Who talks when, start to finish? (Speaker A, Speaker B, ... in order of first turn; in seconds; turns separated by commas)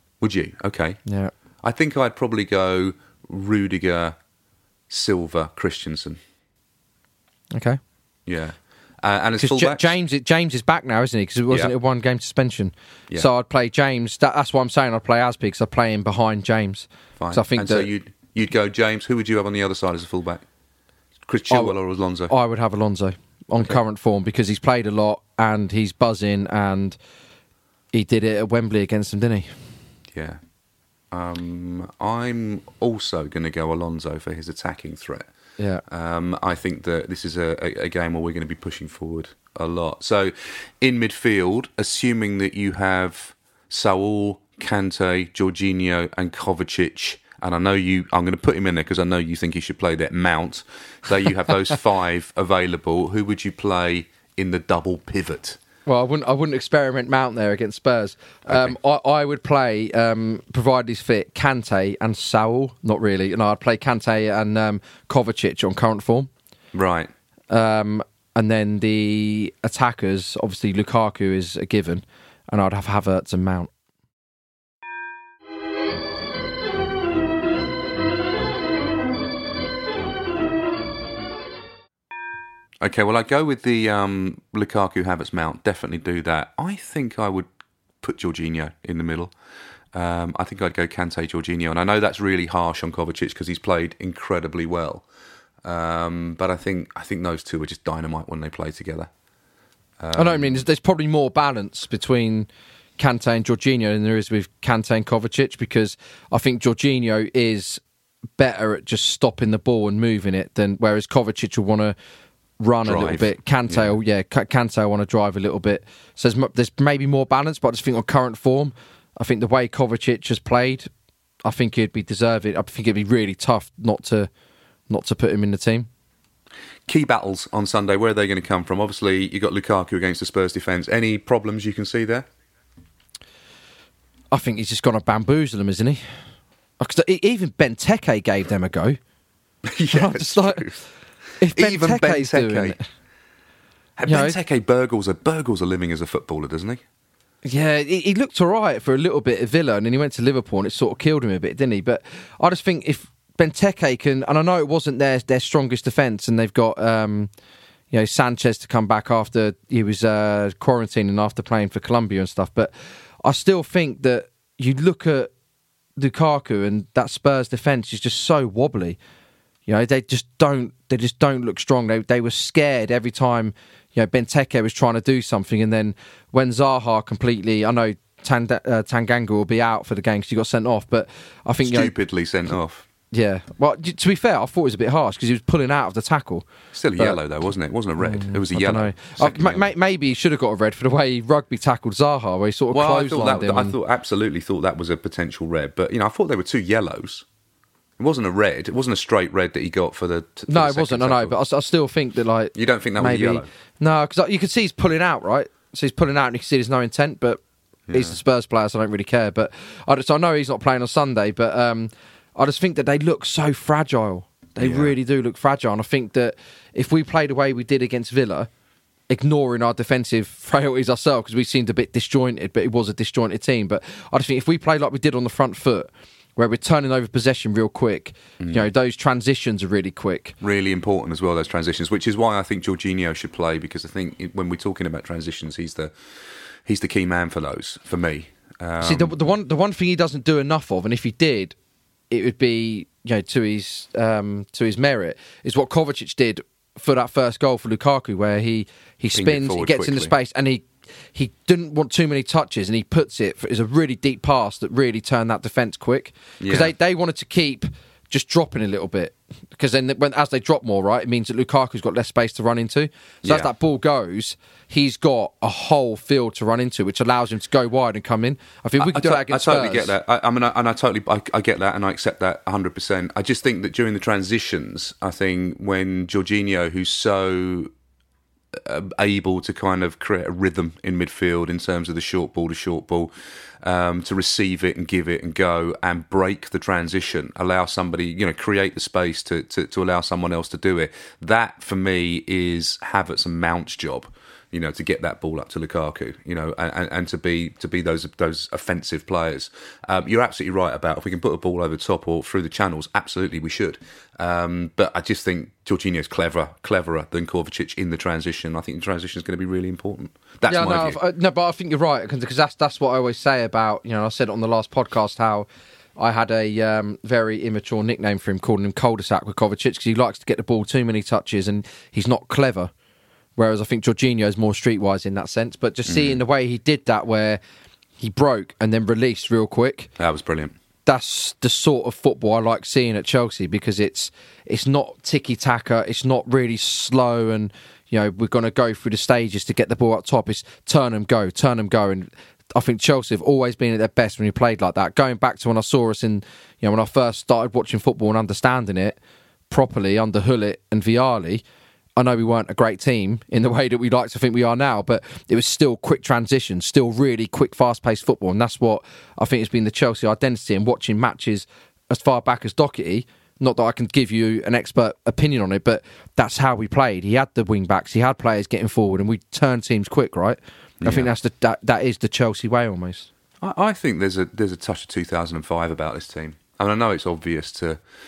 Speaker A: 0.2-1.0, Speaker B: 1.1-1.3, Speaker A: 1.6-4.2, Speaker A: 4.9-6.2, Speaker B: 7.5-7.8, Speaker A: 8.3-9.9, Speaker B: 9.4-17.9, Speaker A: 17.2-20.4, Speaker A: 21.2-22.3, Speaker B: 21.5-21.7, Speaker B: 22.3-27.0, Speaker B: 27.9-29.5, Speaker A: 30.1-30.4, Speaker A: 31.1-35.3, Speaker A: 35.9-55.6, Speaker B: 55.9-66.3, Speaker A: 58.5-58.7, Speaker A: 66.7-67.1, Speaker B: 67.5-73.7, Speaker A: 82.8-87.5, Speaker A: 88.0-89.3, Speaker A: 89.9-95.0, Speaker A: 95.6-99.1, Speaker A: 100.0-100.6, Speaker B: 100.1-107.8, Speaker B: 108.4-111.9, Speaker B: 112.6-120.9, Speaker A: 112.8-114.0, Speaker B: 121.4-124.3, Speaker B: 124.9-125.9, Speaker A: 126.9-132.2, Speaker B: 134.3-136.0, Speaker B: 136.8-139.0, Speaker A: 139.7-140.8, Speaker B: 139.9-140.6, Speaker B: 141.4-142.8, Speaker A: 141.5-142.8, Speaker A: 144.0-146.8, Speaker B: 144.1-144.4, Speaker B: 147.4-157.3, Speaker B: 157.9-162.7, Speaker B: 163.2-165.3, Speaker B: 166.0-169.0, Speaker B: 169.7-181.9, Speaker A: 181.6-182.8, Speaker B: 183.1-187.2, Speaker A: 186.7-189.7, Speaker B: 188.0-193.8, Speaker A: 192.7-197.2, Speaker A: 198.0-201.3, Speaker B: 200.5-207.4, Speaker A: 202.6-203.5, Speaker A: 207.9-208.2, Speaker B: 207.9-218.5, Speaker A: 214.6-214.9, Speaker B: 219.1-230.3, Speaker A: 228.4-228.7, Speaker A: 230.4-235.9, Speaker A: 236.7-239.1, Speaker B: 238.8-241.5, Speaker B: 242.1-269.9, Speaker A: 249.1-250.1, Speaker A: 256.4-256.7, Speaker A: 263.2-263.5, Speaker A: 268.8-277.7, Speaker A: 278.5-283.1, Speaker A: 283.6-311.0, Speaker B: 310.4-322.7, Speaker B: 323.4-327.4, Speaker A: 325.9-326.2, Speaker B: 328.0-329.9, Speaker A: 330.0-330.6, Speaker B: 330.9-349.0, Speaker B: 349.5-351.4, Speaker B: 352.0-373.1, Speaker A: 370.8-371.1, Speaker A: 373.4-377.8